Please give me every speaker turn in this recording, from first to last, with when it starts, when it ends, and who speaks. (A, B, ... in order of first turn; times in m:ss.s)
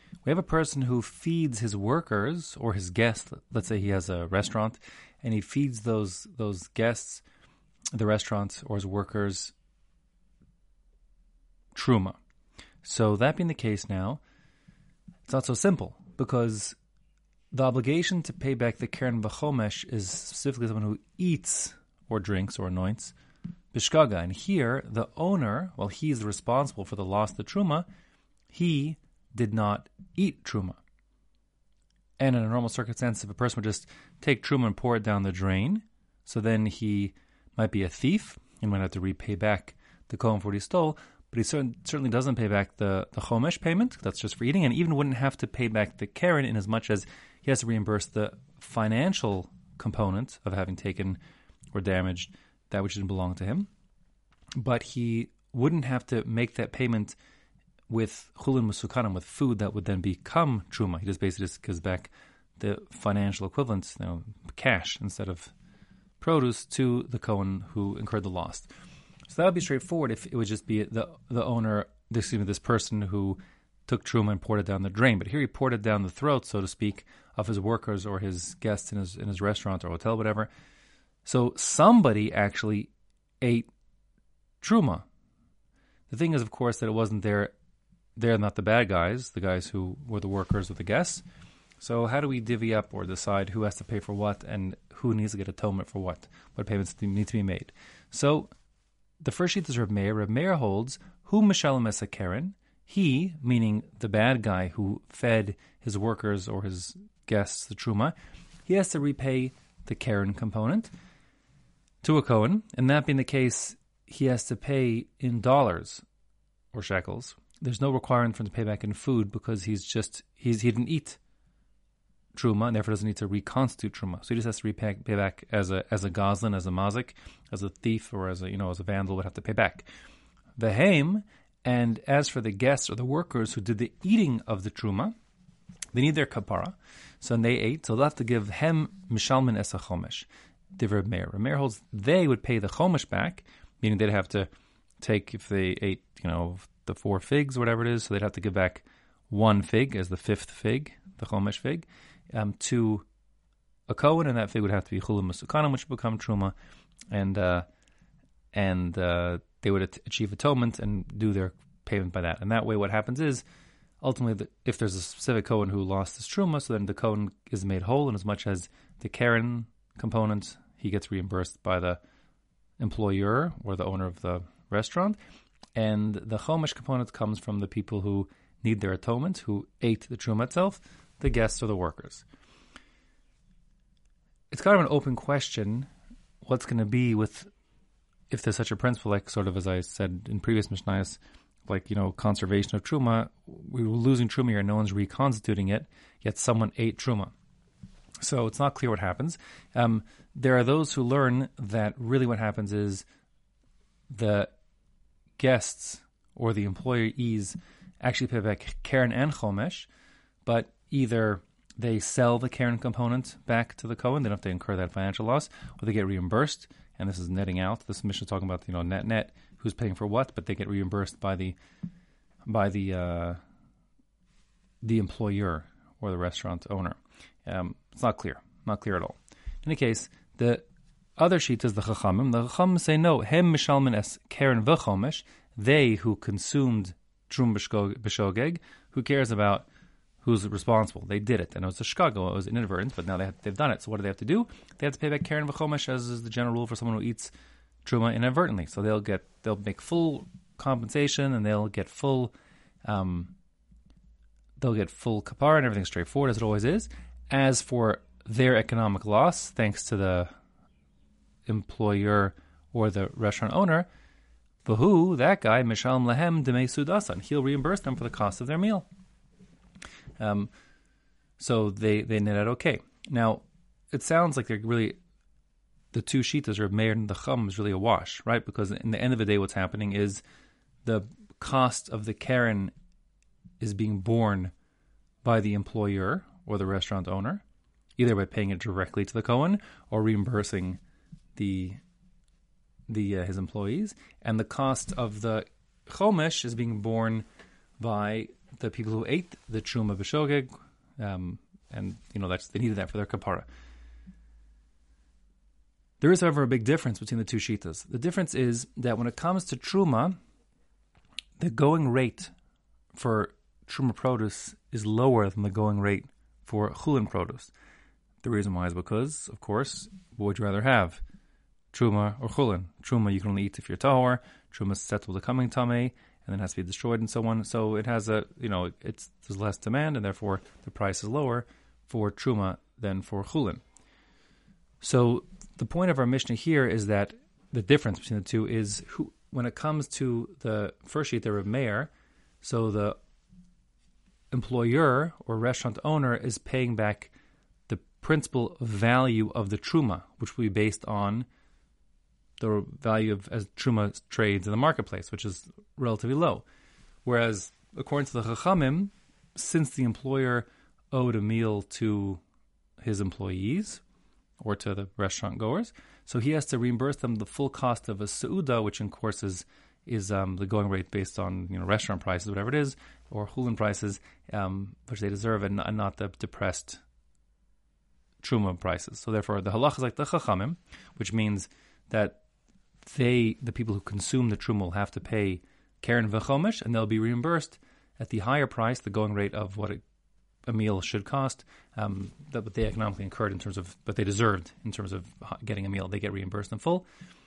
0:00.2-0:07.2 A
0:07.9-0:09.5 A
0:11.7-0:12.2 A
0:12.8-0:14.2 A
0:15.3-0:16.8 A
0:17.5-0:23.2 A
0:23.7-0:27.9 A
0:28.5-0:30.8 A
0:32.2-0:51.2 A
0:51.7-0:53.7 A
0:54.6-0:57.2 A
0:57.9-1:05.5 A
1:06.2-1:08.7 A
1:09.3-1:20.5 A
1:21.2-1:23.7 A
1:24.6-1:25.1 A
1:26.1-1:27.5 A
1:28.2-1:31.2 A
1:31.8-1:38.5 A
1:39.2-1:48.1 A
1:48.7-1:50.9 A
1:52.0-1:56.0 A
1:56.7-2:01.2 A
2:02.4-2:09.9 A
2:10.6-2:15.1 A
2:15.9-2:24.5 A
2:25.0-2:33.1 A
2:33.9-2:36.5 A
2:37.1-2:37.7 A
2:38.5-2:43.4 A
2:44.0-2:52.0 A
2:52.8-2:55.2 A
2:55.8-3:02.3 A
3:04.5-3:05.9 A
3:06.4-3:07.5 A
3:08.3-3:17.3 A
3:18.2-3:23.1 A
3:24.1-3:24.5 A
3:25.4-3:29.9 A
3:30.4-3:41.6 A
3:42.5-3:43.4 A
3:44.8-3:50.6 A
3:51.2-3:59.7 A
4:00.2-4:07.3 A
4:07.8-4:12.3 A
4:12.8-4:13.3 A
4:14.6-4:20.3 A
4:21.5-4:23.9 A
4:24.6-4:28.9 A
4:30.2-4:30.5 A
4:31.4-4:35.0 A
4:35.9-4:40.2 A
4:40.8-4:42.7 A
4:43.6-4:44.5 A
4:45.2-4:47.4 A
4:48.0-4:50.8 A
4:51.4-4:51.8 A
4:52.9-4:57.2 A
4:57.8-5:03.5 A
5:06.0-5:10.2 A
5:11.4-5:12.3 A
5:12.9-5:17.5 A
5:18.2-5:21.0 A
5:21.7-5:33.6 A
5:34.8-5:41.9 A
5:42.4-5:43.0 A
5:44.3-5:47.1 A
5:47.7-5:51.3 A
5:52.4-5:56.4 A
5:57.0-6:02.2 A
6:02.8-6:03.8 A
6:04.4-6:16.8 A
6:18.2-6:22.2 A
6:22.8-6:29.8 A
6:30.5-6:36.8 A